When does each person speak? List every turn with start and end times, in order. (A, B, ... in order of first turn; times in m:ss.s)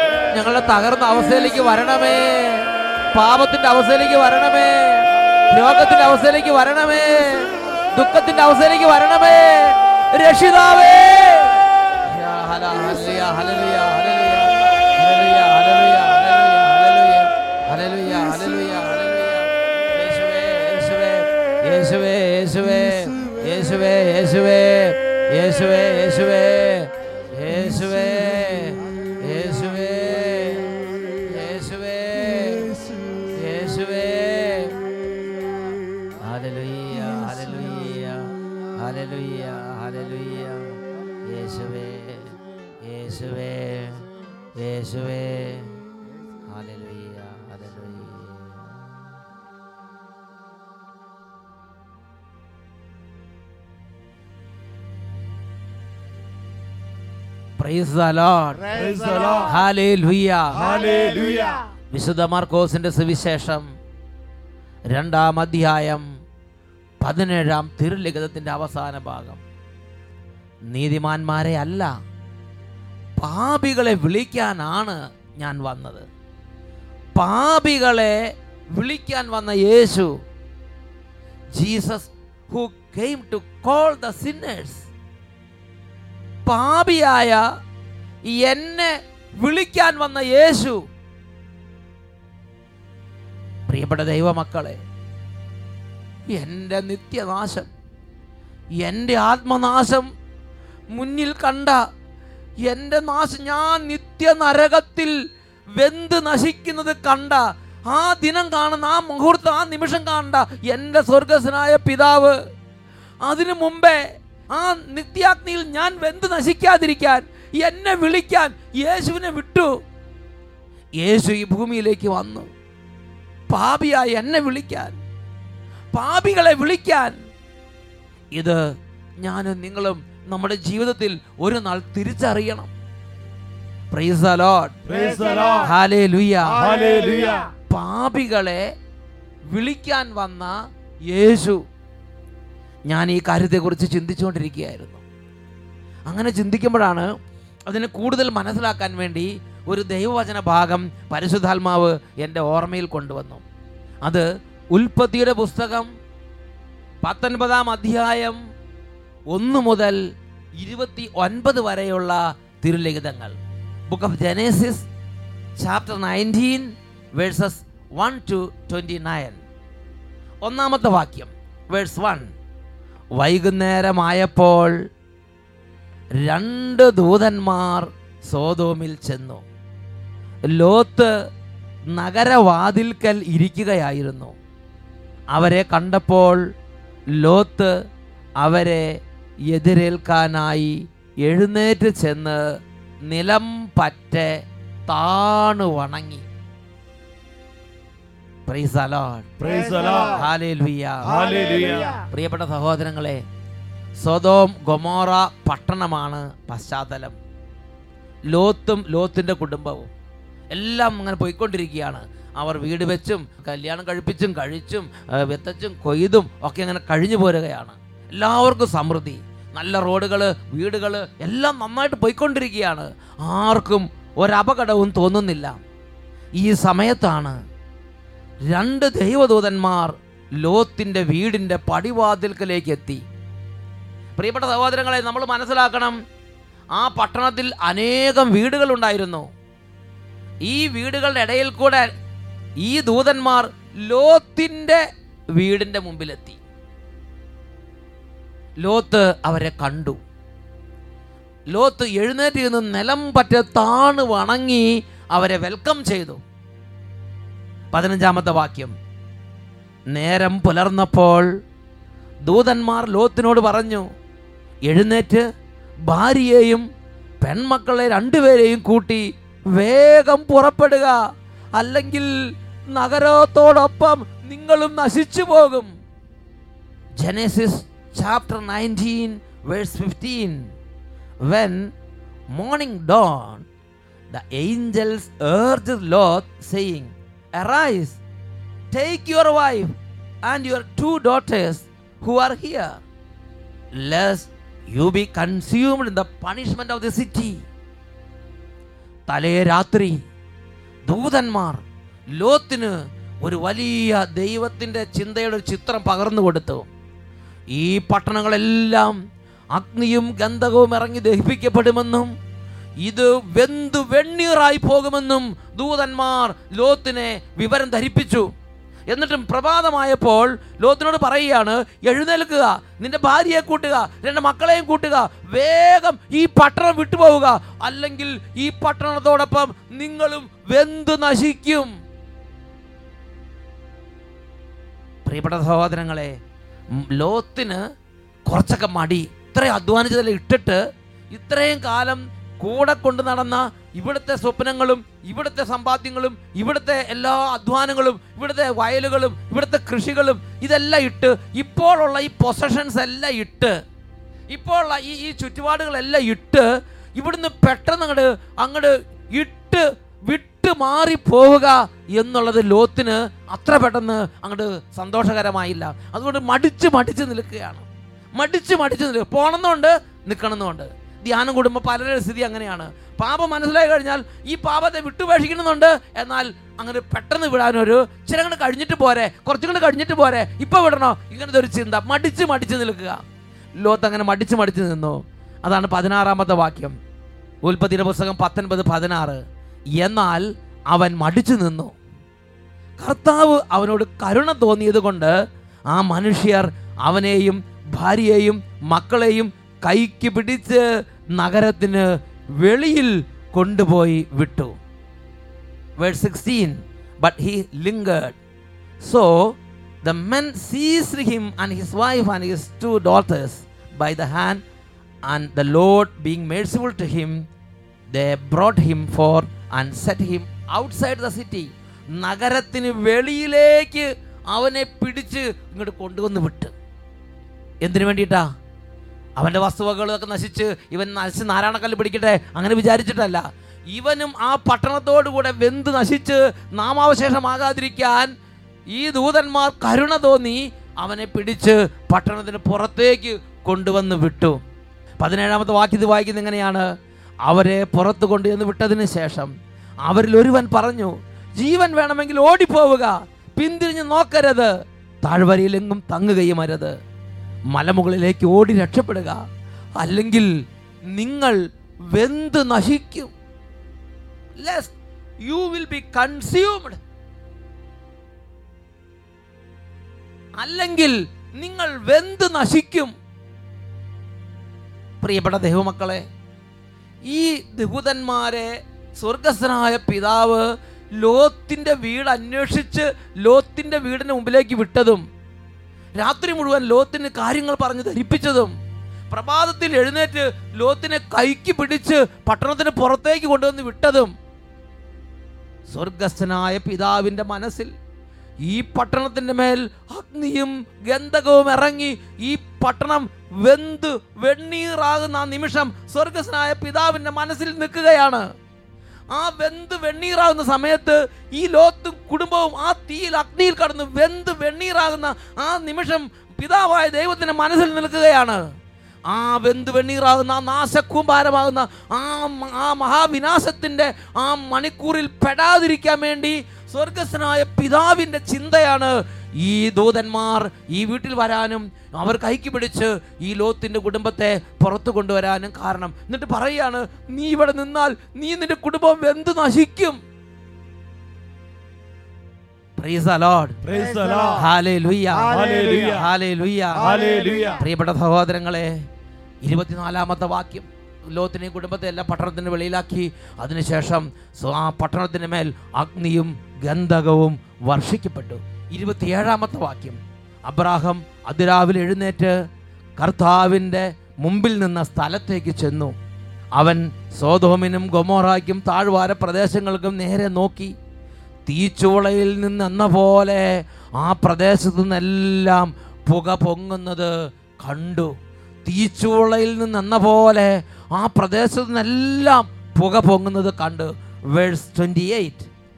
0:00.3-0:30.7 A
0:22.6-0:23.8 B
0:27.5-0:28.8 B
0:30.9-0:31.2 B
0:31.2-0:32.6 A
0:32.2-0:33.4 B
0:33.4-0:34.7 A
0:36.2-0:45.7 A
0:37.0-0:37.3 B
0:46.5-0:48.7 A
0:57.6-0:58.7 A
0:58.7-0:59.6 B
0:59.4-1:00.7 A
1:00.6-1:01.6 B
1:01.9-1:03.7 A
1:04.9-1:06.1 A
1:07.0-1:09.4 A
1:10.7-1:11.9 A
1:13.2-1:16.1 A
1:17.2-1:18.2 A
1:18.7-1:20.1 A
1:21.6-1:24.9 A
1:26.5-1:27.5 A
1:28.3-1:30.8 A
1:33.7-1:34.8 A
1:36.3-1:37.7 A
1:38.8-1:40.1 A
1:40.9-1:41.8 A
1:42.7-1:45.2 A
1:45.8-1:52.4 A
1:53.2-1:59.7 A
2:01.0-2:02.5 A
2:03.5-2:05.0 A
2:05.9-2:07.2 A
2:08.4-2:08.6 A
2:09.2-2:12.7 A
2:13.9-2:14.8 A
2:14.9-2:15.7 B
2:15.4-2:16.6 A
2:16.6-2:17.5 B
2:17.7-2:18.7 A
2:19.5-2:20.6 A
2:21.1-2:21.6 A
2:22.9-2:25.0 A
2:26.1-2:27.1 A
2:27.7-2:33.4 A
2:34.0-2:35.9 A
2:37.0-2:38.4 A
2:39.3-2:40.0 A
2:40.6-2:43.4 A
2:43.9-2:44.9 A
2:45.6-2:49.4 A
2:50.4-2:52.3 A
2:53.2-2:54.8 A
2:56.2-2:59.4 A
3:00.5-3:01.1 A
3:01.9-3:04.3 A
3:05.3-3:06.4 A
3:07.2-3:07.7 A
3:08.4-3:09.0 A
3:09.5-3:12.4 A
3:13.1-3:16.3 A
3:18.5-3:19.3 A
3:19.4-3:20.2 B
3:20.0-3:21.2 A
3:21.1-3:22.0 B
3:22.0-3:23.2 A
3:24.0-3:27.2 A
3:28.3-3:29.9 A
3:30.5-3:45.6 A
3:46.4-3:47.4 A
3:48.5-3:53.0 A
3:54.2-3:56.0 A
3:56.8-3:59.3 A
4:00.4-4:01.9 A
4:02.6-4:04.8 A
4:05.4-4:06.4 A
4:08.6-4:10.0 A
4:11.5-4:16.2 A
4:17.7-4:18.8 A
4:19.9-4:21.3 A
4:22.3-4:23.9 A
4:24.7-4:25.2 A
4:25.9-4:26.7 A
4:27.2-4:31.0 A
4:31.6-4:32.1 A
4:32.7-4:35.7 A
4:37.0-4:40.5 A
4:41.3-4:41.7 A
4:42.3-4:43.4 A
4:44.1-4:48.0 A
4:48.7-4:49.7 A
4:50.2-4:52.8 A
4:53.8-4:57.4 A
4:59.1-5:00.0 A
5:00.9-5:01.6 A
5:02.2-5:06.7 A
5:07.5-5:09.0 A
5:09.6-5:12.1 A
5:12.8-5:18.3 A
5:18.9-5:31.7 A
5:35.0-5:36.1 A
5:36.8-5:37.6 A
5:38.3-5:40.6 A
5:41.1-5:53.6 A
5:54.3-5:56.4 A
5:57.0-6:07.6 A
6:08.2-6:23.0 A
6:23.6-6:26.8 A
6:27.4-6:29.2 A
6:29.8-6:31.7 A
6:32.8-6:35.2 A
6:35.7-6:40.6 A
6:41.2-6:41.9 A
6:42.4-6:44.6 A
6:45.8-6:48.2 A
6:48.8-6:54.4 A
6:55.1-6:57.2 A
6:57.9-7:06.5 A
7:07.6-7:08.3 A
7:09.2-7:18.1 A
7:18.7-7:24.4 A
7:25.0-7:26.7 A
7:27.3-7:29.3 A
7:29.8-7:34.5 A
7:35.0-7:36.8 A
7:37.5-7:39.2 A
7:39.8-7:40.3 A
7:40.9-7:41.4 A
7:41.9-7:43.1 A
7:44.4-7:46.8 A
7:50.4-7:52.9 A
7:55.0-7:56.0 A
7:57.1-8:00.5 A
8:01.0-8:05.0 A
8:06.0-8:08.5 A
8:09.1-8:14.1 A
8:15.7-8:17.7 A
8:18.4-8:28.2 A
8:29.1-8:38.4 A
8:39.1-9:00.0 A
9:02.8-9:03.6 A
9:03.6-9:04.4 B
9:04.3-9:08.8 A
9:05.3-9:06.1 B
9:06.8-9:07.6 B
9:09.4-9:22.4 A
9:23.0-9:25.9 A
9:26.6-9:30.7 A
9:31.4-9:45.5 A